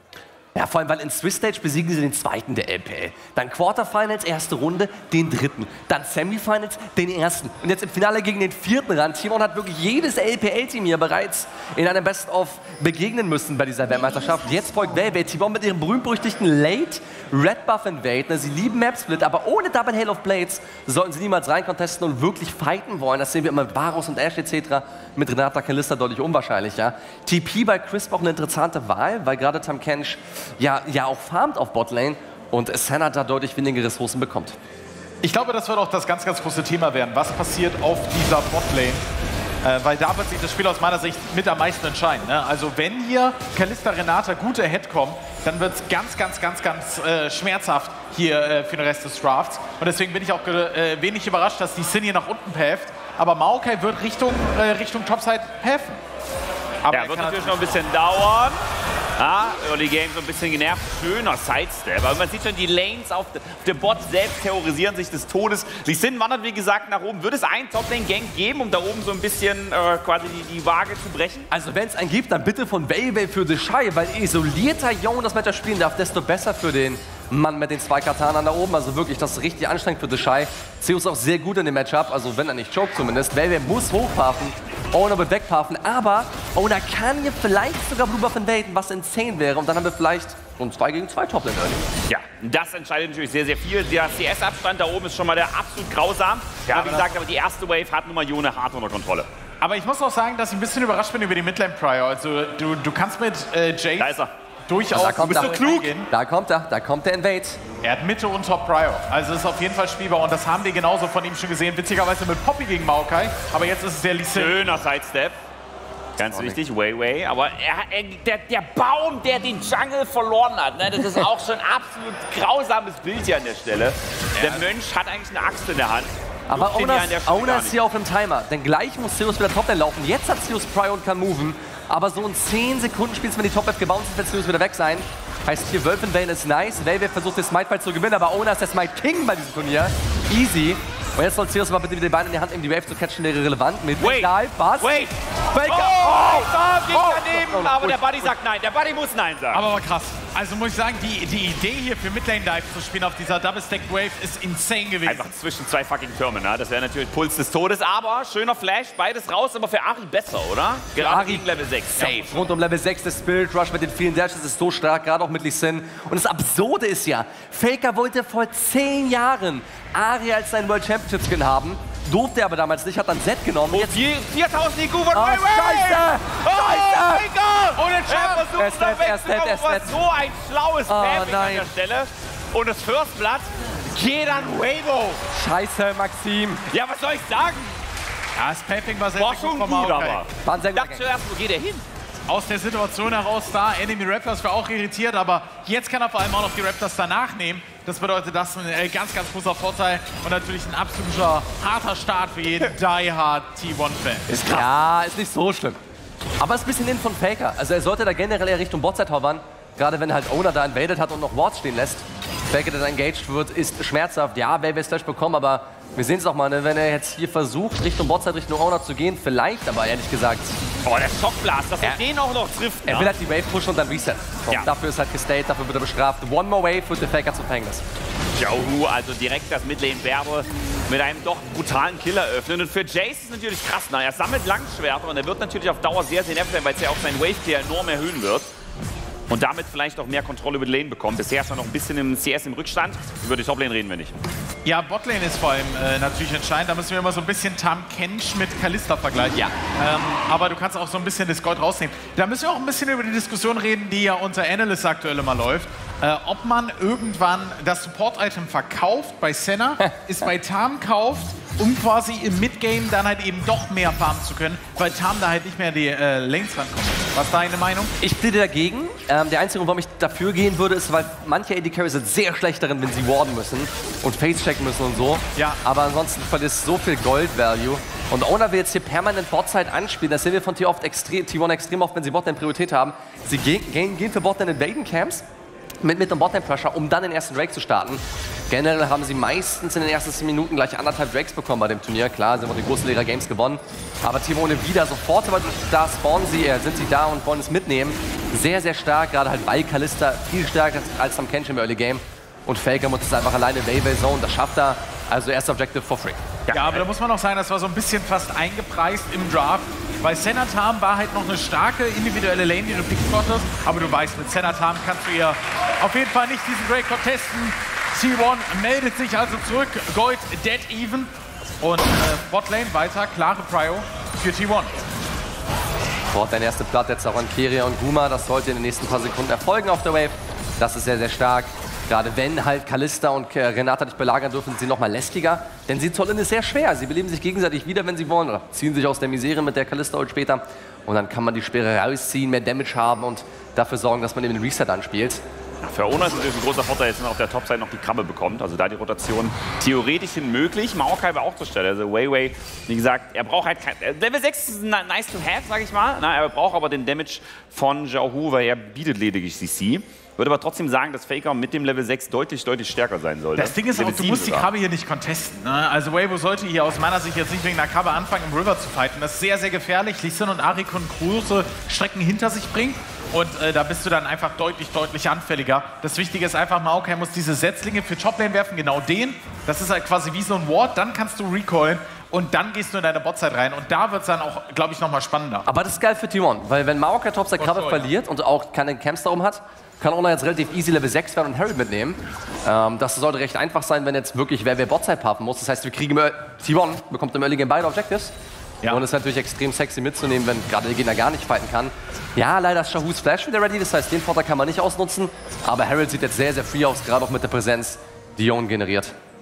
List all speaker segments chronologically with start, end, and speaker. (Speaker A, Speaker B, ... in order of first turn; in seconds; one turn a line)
Speaker A: 0.6-34.5
Speaker B: 35.2-39.0
Speaker B: 39.6-56.0
Speaker B: 56.8-57.8
Speaker C: 56.9-58.6
Speaker C: 59.2-71.5
Speaker A: 71.5-91.8
Speaker C: 92.1-99.3
Speaker B: 96.7-97.1
Speaker B: 99.6-106.1
Speaker C: 104.0-104.3
Speaker A: 104.9-107.6
Speaker C: 105.0-106.0
Speaker B: 107.8-114.6
Speaker C: 114.3-115.3
Speaker C: 116.2-127.7
Speaker A: 116.3-116.6
Speaker A: 126.5-148.3
Speaker C: 144.0-149.7
Speaker B: 149.5-155.3
Speaker C: 155.0-162.4
Speaker A: 161.0-174.0
Speaker C: 173.7-185.2
Speaker A: 175.1-177.2
Speaker B: 177.8-178.5
Speaker A: 178.5-179.9
Speaker A: 180.9-181.7
Speaker A: 185.3-186.7
Speaker C: 186.7-187.7
Speaker B: 188.4-190.2
Speaker C: 189.2-191.8
Speaker A: 190.4-191.1
Speaker B: 192.3-204.3
Speaker A: 204.3-205.8
Speaker A: 206.4-220.6
Speaker C: 220.8-223.1
Speaker A: 222.8-227.8
Speaker C: 228.4-238.5
Speaker C: 239.3-244.1
Speaker B: 244.6-267.9
Speaker A: 268.0-285.2
Speaker A: 285.8-306.2
Speaker C: 306.5-306.8
Speaker B: 306.5-324.8
Speaker A: 326.1-345.2
Speaker C: 345.6-364.5
Speaker B: 363.4-385.4
Speaker A: 385.4-398.1
Speaker B: 387.4-387.9
Speaker A: 398.7-408.9